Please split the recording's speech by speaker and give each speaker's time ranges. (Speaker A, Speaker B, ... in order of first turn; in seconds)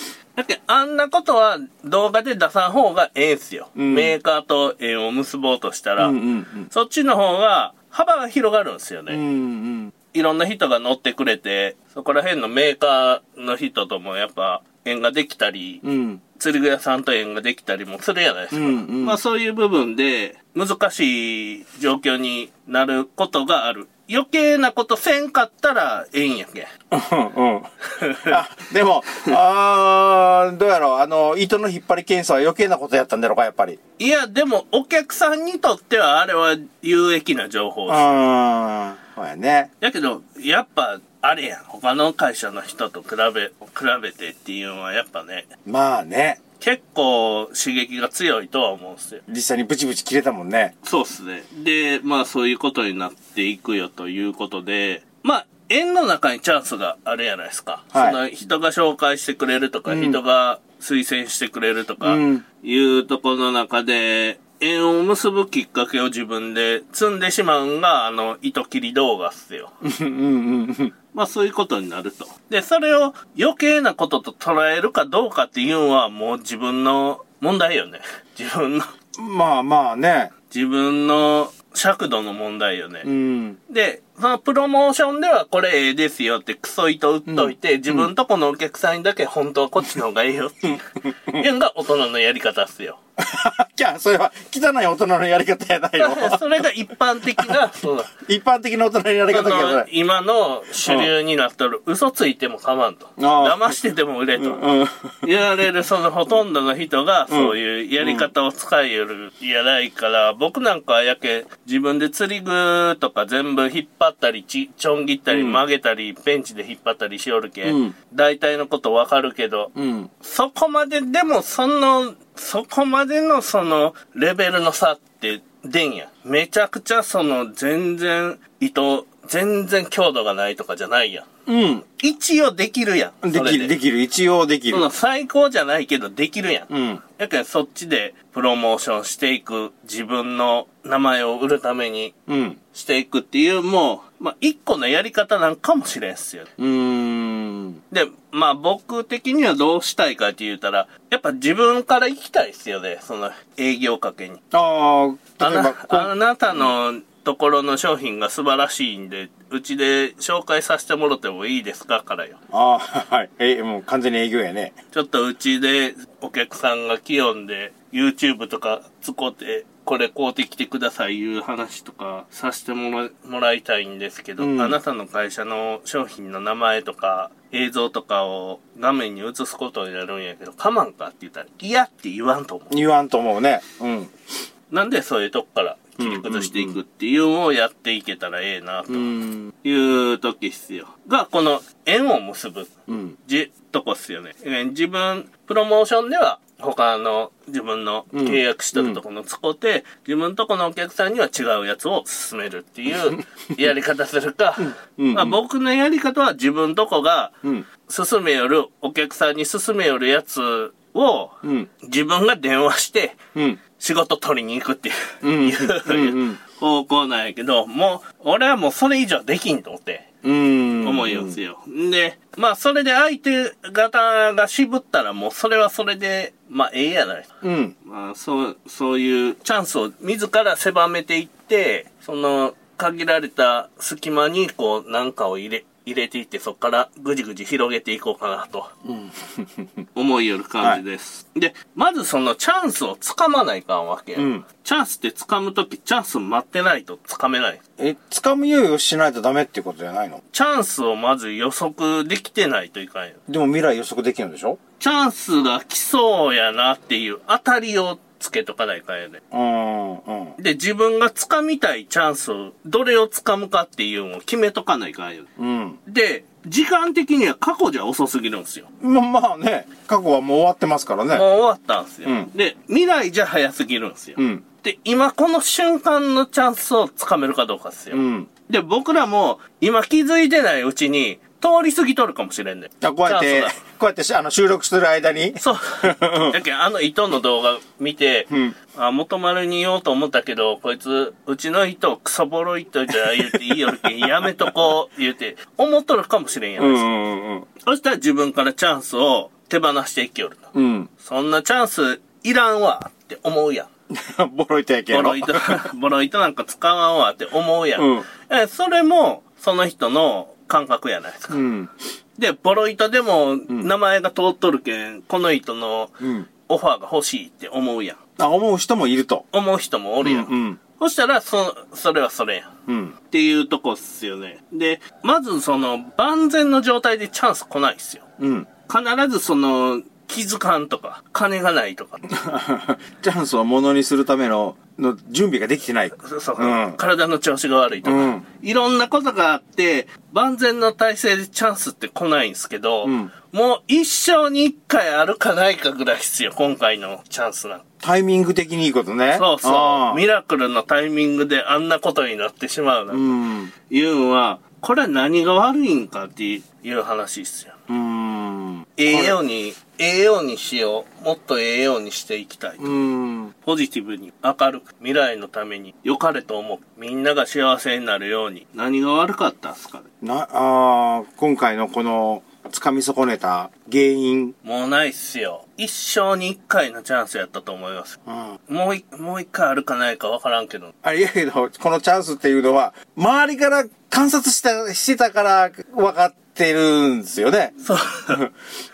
Speaker A: 0.4-6.2, 6.7-9.2, 10.1-15.8, 16.4-26.7, 27.9-28.4, 34.0-38.1, 39.8-45.5, 46.6-49.2, 50.8-69.7, 71.1-78.9, 80.5-83.1, 83.7-93.0, 96.0-98.1, 99.3-104.6, 105.2-131.3, 131.9-133.8, 134.7-142.1, 142.7-146.5, 147.9-154.4, 155.4-162.4, 164.9-182.7, 184.7-192.7, 193.2-213.2, 213.8-220.1, 220.8-227.3, 227.8-238.7, 239.9-247.6, 250.3-253.2, 254.8-259.2, 260.4-265.3, 265.9-268.7, 271.1-283.6, 285.4-296.9, 297.6-303.7, 304.9-311.4, 312.2-318.0, 319.3-322.5, 323.1-328.0, 328.7-332.0, 336.0-347.6, 349.1-357.6, 358.8-362.7, 363.4-369.9, 374.4-380.7, 387.6-388.2
Speaker B: 3.8-4.2, 6.0-6.7, 9.1-9.9, 15.8-16.2, 18.5-19.2, 26.9-27.7, 28.2-33.8, 37.9-39.7, 45.7-46.4, 49.3-50.7, 57.9-58.2, 59.9-60.2, 62.0-62.5, 69.8-70.9, 79.2-80.3, 83.0-83.6, 87.3-88.1, 93.2-96.6, 97.4-99.9, 100.8-101.1, 103.2-103.8, 104.4-105.2, 107.3-108.3, 115.3-115.6, 117.6-118.0, 119.8-120.1, 131.5-131.8, 133.2-134.9, 136.7-137.0, 142.3-142.6, 146.6-147.8, 154.5-156.7, 162.5-164.8, 174.4-174.8, 182.7-184.1, 186.0-186.8, 188.9-189.5, 192.9-193.2, 198.1-199.0, 204.6-205.4, 211.4-211.7, 213.3-213.6, 215.2-216.4, 220.2-221.4, 227.4-227.7, 238.8-239.7, 244.2-244.4, 247.8-250.2, 253.3-254.6, 259.3-260.4, 265.4-265.8, 268.8-271.3, 272.1-272.3, 274.2-274.4, 277.9-278.3, 282.8-286.4, 288.3-288.6, 293.0-294.5, 296.6-297.5, 300.5-300.9, 303.9-305.7, 307.8-308.1, 311.3-311.7, 316.0-316.3, 318.2-319.3, 320.0-320.6, 322.7-322.9, 328.2-328.5, 332.1-336.8, 337.9-338.2, 342.8-343.1, 347.8-350.0, 352.9-353.5, 357.7-359.2, 362.6-363.3, 370.0-374.4, 378.1-378.4, 380.8-387.6